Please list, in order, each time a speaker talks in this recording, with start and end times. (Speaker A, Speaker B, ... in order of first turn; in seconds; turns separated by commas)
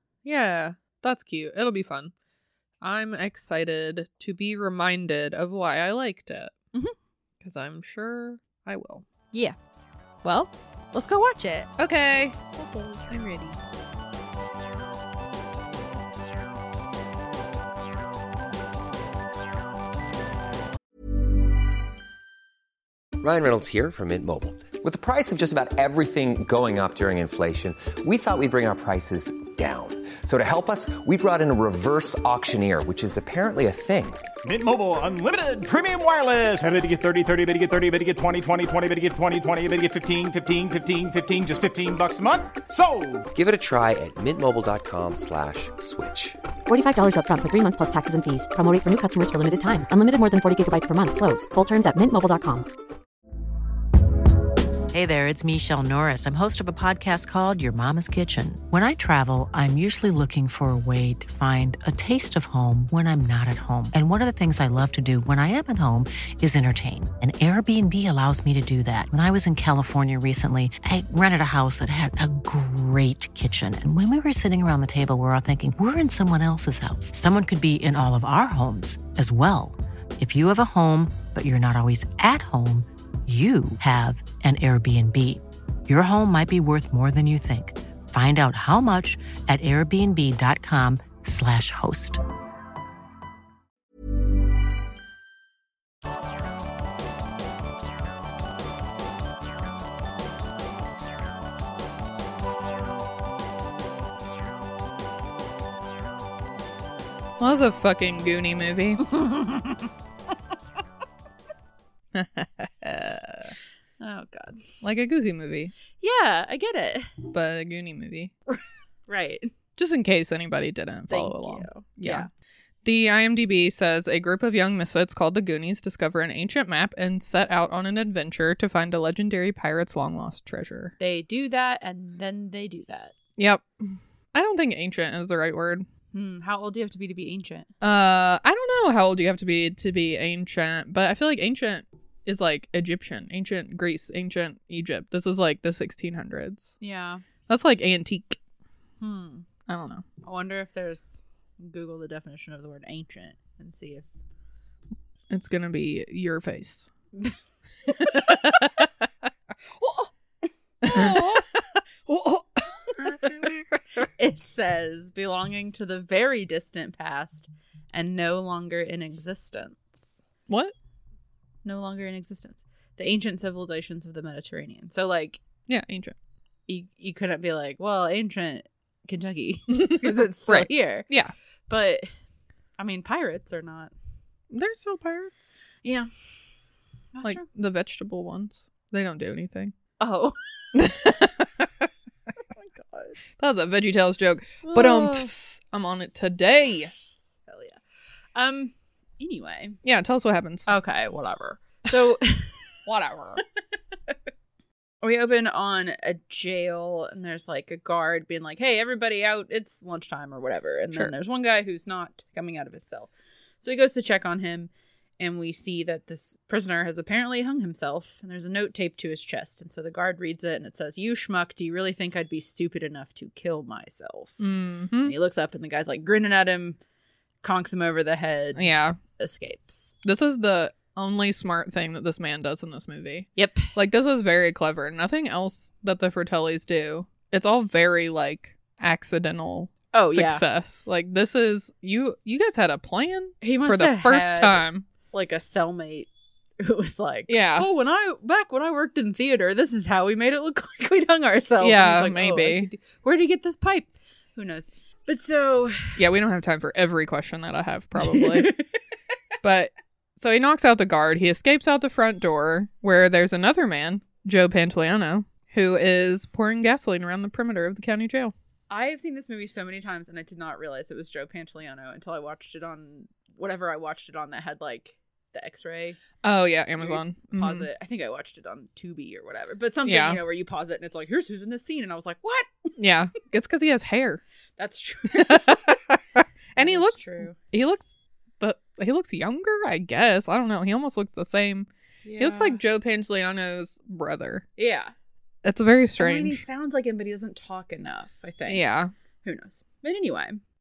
Speaker A: 0.2-2.1, Speaker A: 2.8-6.5, Speaker A: 7.4-9.1, Speaker B: 10.2-11.7, Speaker A: 11.8-13.6, Speaker C: 23.2-34.2, Speaker D: 34.4-43.3, Speaker C: 43.3-46.4, Speaker E: 46.7-52.7, Speaker F: 54.9-92.2, Speaker A: 107.4-109.1, Speaker B: 109.2-109.6, Speaker A: 112.1-113.5, Speaker B: 114.0-114.6, Speaker A: 114.8-115.7, Speaker B: 116.0-117.1, Speaker A: 117.3-118.3, Speaker B: 118.5-119.5, Speaker A: 119.8-122.3, Speaker B: 121.1-122.3, Speaker A: 122.8-130.9, Speaker B: 131.0-133.1, Speaker A: 133.4-135.9, Speaker B: 136.1-137.7, Speaker A: 137.8-146.7, Speaker B: 146.8-147.2, Speaker A: 147.5-148.4, Speaker B: 149.0-149.4, Speaker A: 149.7-150.0, Speaker B: 150.2-154.1, Speaker A: 155.3-156.9, Speaker B: 157.9-158.7, Speaker A: 158.0-158.8, Speaker B: 159.7-160.1, Speaker A: 160.8-161.4, Speaker B: 160.8-161.5, Speaker A: 162.1-163.6, Speaker B: 164.0-170.2, Speaker A: 170.5-170.7, Speaker B: 171.6-175.4, Speaker A: 175.7-176.2, Speaker B: 176.7-181.1, Speaker A: 179.7-181.3, Speaker B: 181.7-182.1, Speaker B: 182.8-183.9, Speaker A: 184.5-185.4, Speaker B: 185.8-186.5, Speaker B: 187.1-187.4, Speaker A: 187.2-189.7, Speaker B: 190.0-190.7, Speaker A: 190.7-191.9, Speaker B: 192.5-193.2, Speaker A: 193.4-196.9, Speaker B: 194.6-195.3, Speaker B: 196.8-197.8, Speaker B: 198.3-199.8, Speaker A: 199.8-200.7, Speaker B: 200.7-202.8, Speaker A: 202.8-203.4, Speaker B: 205.0-226.8, Speaker A: 224.4-225.1, Speaker B: 227.4-229.9, Speaker A: 228.6-229.0, Speaker A: 230.0-244.8, Speaker B: 233.3-233.7, Speaker B: 239.9-240.4, Speaker B: 243.4-246.1, Speaker B: 246.6-256.1, Speaker A: 247.3-247.7, Speaker A: 251.6-252.7, Speaker A: 256.0-258.5, Speaker B: 257.9-258.7, Speaker A: 259.4-268.3, Speaker B: 268.7-276.0, Speaker A: 276.2-277.7, Speaker B: 276.8-282.7, Speaker A: 279.8-280.2, Speaker A: 282.8-284.2, Speaker B: 284.6-285.8, Speaker A: 285.1-294.4, Speaker B: 286.6-287.4, Speaker B: 292.0-292.6, Speaker B: 294.6-294.9, Speaker A: 295.4-296.4, Speaker B: 296.0-298.7, Speaker A: 298.5-298.9, Speaker B: 299.2-300.4